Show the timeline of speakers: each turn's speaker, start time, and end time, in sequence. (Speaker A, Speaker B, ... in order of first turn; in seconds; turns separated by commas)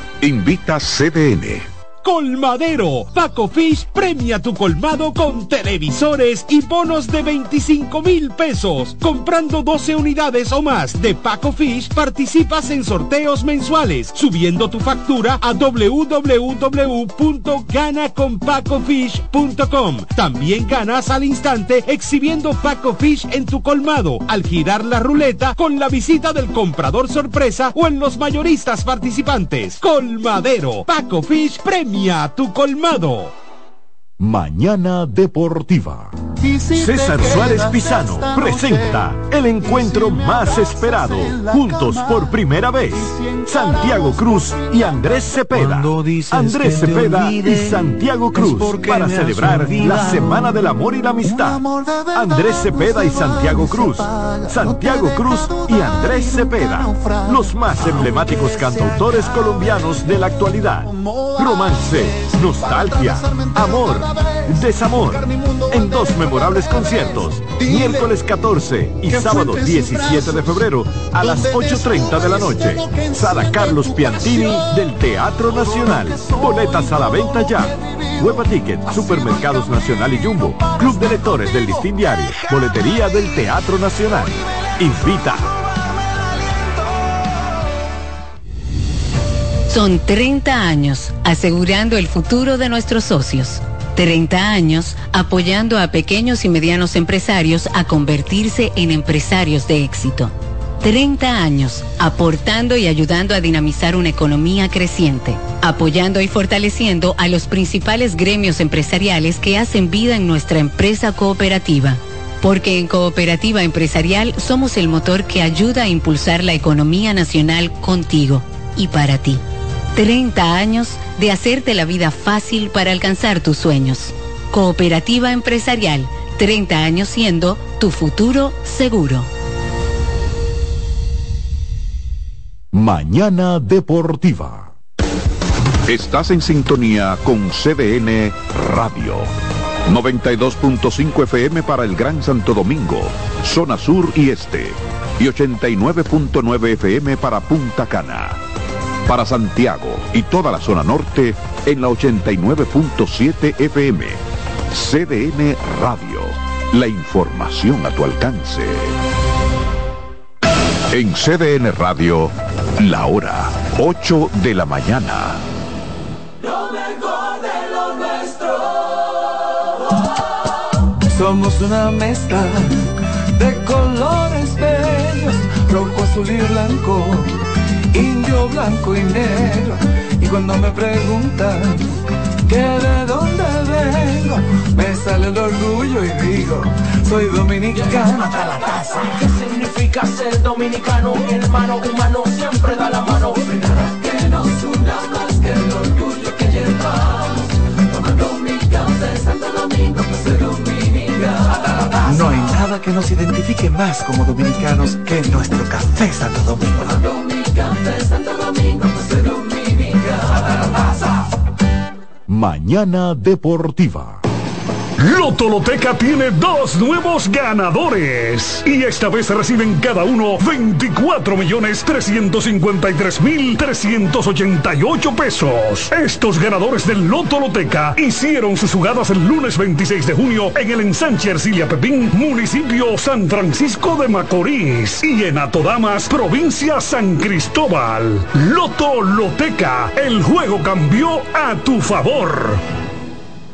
Speaker A: 0.2-1.7, Speaker B: 2.0-33.3, Speaker A: 34.2-36.1, Speaker C: 36.5-38.9, Speaker A: 36.7-85.5, Speaker C: 39.9-40.3, Speaker C: 41.3-42.2, Speaker C: 45.5-50.4, Speaker C: 54.2-54.8, Speaker D: 89.7-119.4, Speaker D: 119.9-129.3, Speaker A: 132.7-134.7, Speaker A: 135.8-139.3, Speaker A: 139.8-148.4, Speaker A: 149.1-158.9, Speaker A: 160.9-165.4, Speaker E: 171.1-177.4, Speaker E: 177.9-181.9, Speaker E: 182.5-188.2, Speaker B: 188.3-194.0, Speaker C: 202.1-207.1, Speaker A: 212.3-214.2, Speaker F: 215.0-242.6